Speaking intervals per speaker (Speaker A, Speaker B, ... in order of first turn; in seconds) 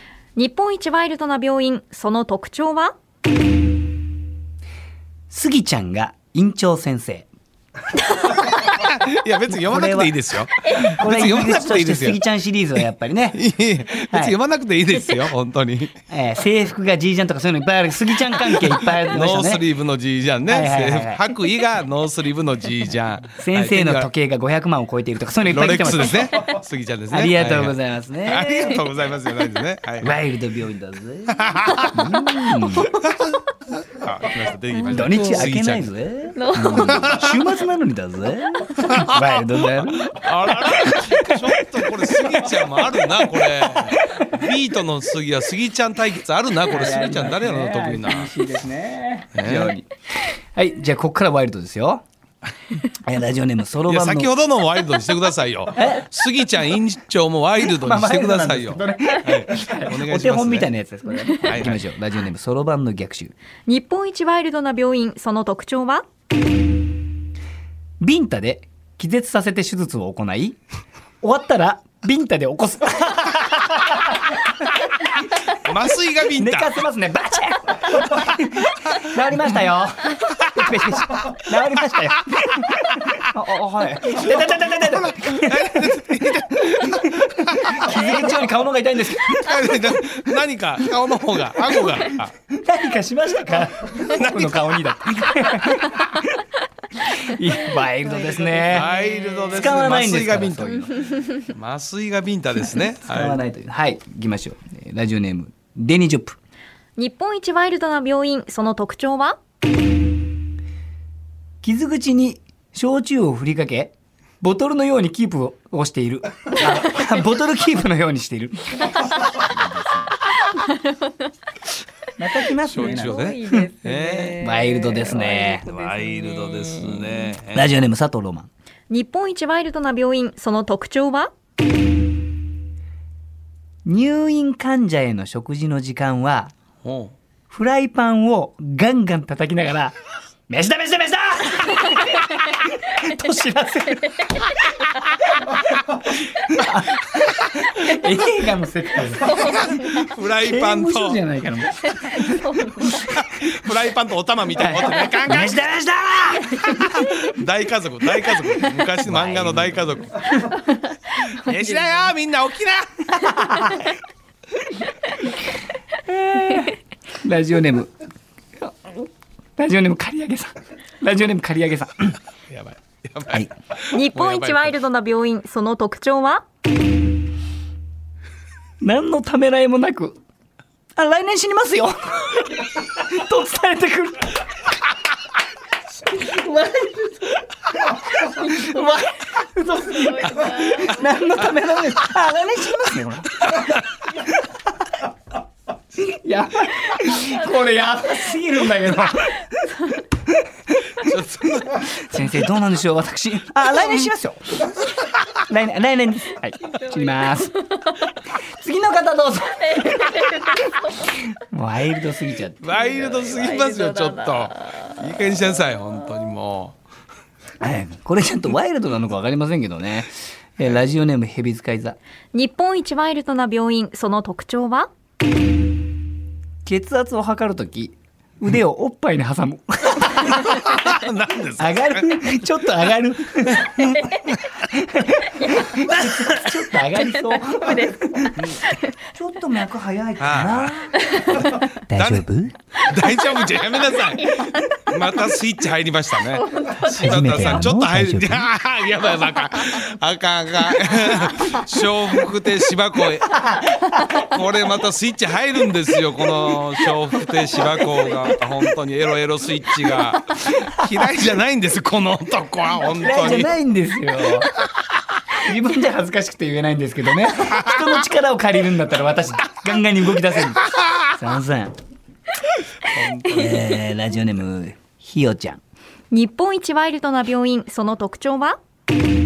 Speaker A: 0.3-2.9, 10.6-10.9, 34.8-35.5, 36.3-37.1, 63.7-66.0, 97.5-99.8, 101.1-101.3, 107.0-109.4, 119.0-119.2, 120.4-121.3, 122.7-127.3, 128.9-131.3, 141.8-145.5, 149.2-150.2, 151.8-152.9, 160.6-162.1, 163.2-163.9, 164.9-165.3, 173.9-176.4, 186.3-187.2, 188.3-189.0, 189.8-191.5, 197.3-197.7, 199.4-200.0, 206.6-208.2, 209.6-211.2, 212.7-215.4, 222.3-224.9, 233.8-234.5, 235.3-235.8, 236.7-239.0, 240.9-241.8, 243.0-245.3, 246.2-247.7, 251.0-251.6, 273.2-273.7, 276.1-278.6
Speaker B: 5.3-7.3, 9.5-10.2, 10.9-13.4, 14.1-14.3, 16.1-19.6, 20.5-21.2, 23.4-26.3, 27.1-28.8, 30.0-32.9, 34.9-41.6, 43.6-44.3, 46.6-52.0, 53.0-54.3, 55.7-56.0, 57.6-63.3, 68.0-70.6, 71.2-75.4, 76.3-86.0, 86.6-89.9, 91.6-91.9, 92.5-96.4, 97.0-98.9, 99.5-101.0, 103.0-106.4, 111.6-120.2, 122.2-123.7, 124.4-125.7, 127.5-128.5, 133.8-136.5, 137.5-139.9, 140.5-144.6, 145.4-149.4, 150.4-153.1, 154.6-157.0, 159.0-160.0, 163.3-163.7, 166.0-167.9, 169.6-172.2, 178.8-180.2, 180.9-184.7, 186.2-187.1, 187.8-193.7, 195.9-199.5, 201.9-204.8, 205.4-207.5, 208.3-210.5, 211.1-212.8, 217.6-222.0, 226.6-230.7, 231.6-238.4, 239.1-242.6, 246.9-248.5, 263.0-264.5, 265.3-271.7, 273.2-275.6
Speaker C: 8.4-12.2, 13.3-15.9, 19.0-24.1, 25.4-30.2, 31.3-32.0, 32.8-35.9, 36.8-37.3, 38.8-48.4, 49.3-49.8, 53.9-60.7, 61.4-61.8, 75.5-76.8, 80.3-80.7, 82.5-83.3, 84.2-88.2, 89.2-92.3, 94.0-94.7, 98.7-103.4, 122.6-124.4, 125.5-127.8, 136.8-137.1, 149.4-151.2, 152.9-155.6, 156.6-160.4, 161.2-163.3, 172.5-174.7, 193.4-193.8, 200.9-202.2, 212.6-216.8, 230.5-232.1, 235.9-236.5, 240.2-242.3, 242.8-253.4, 254.2-263.5, 272.9-273.6